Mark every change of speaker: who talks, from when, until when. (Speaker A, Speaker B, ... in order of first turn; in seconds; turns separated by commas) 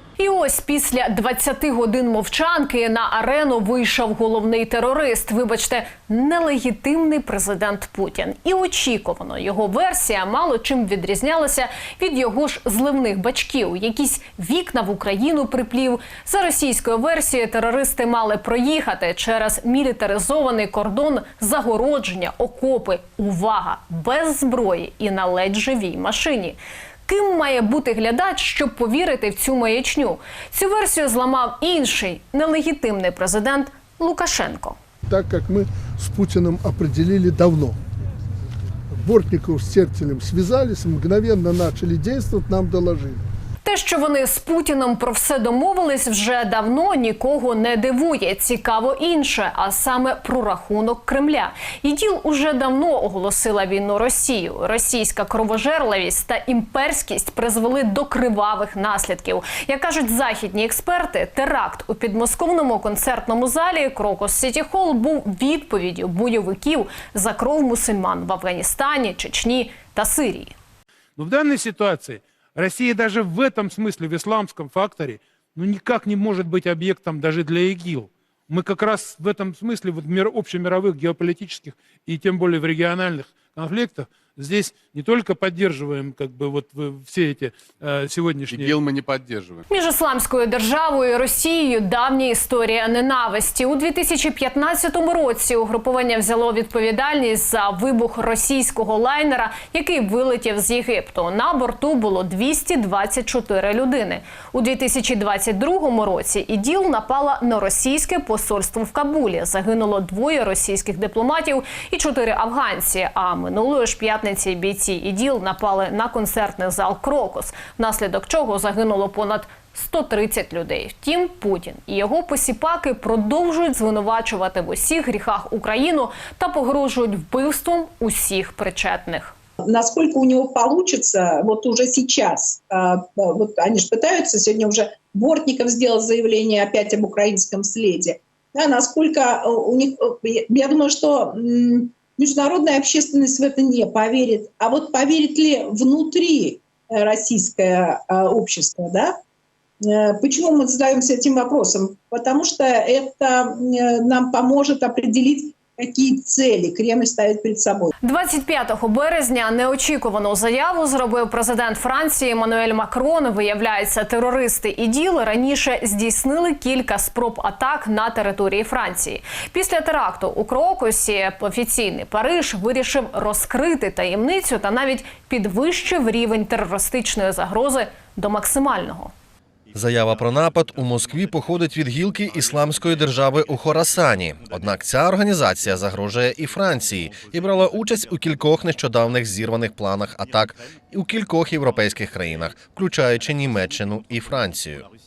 Speaker A: 0.2-34.8, Speaker B: 35.1-37.8, Speaker B: 39.0-43.2, Speaker A: 43.6-70.5, Speaker C: 71.2-88.8, Speaker A: 89.7-129.3, Speaker D: 129.6-149.2, Speaker D: 149.8-157.9, Speaker A: 158.0-179.1, Speaker E: 179.7-194.8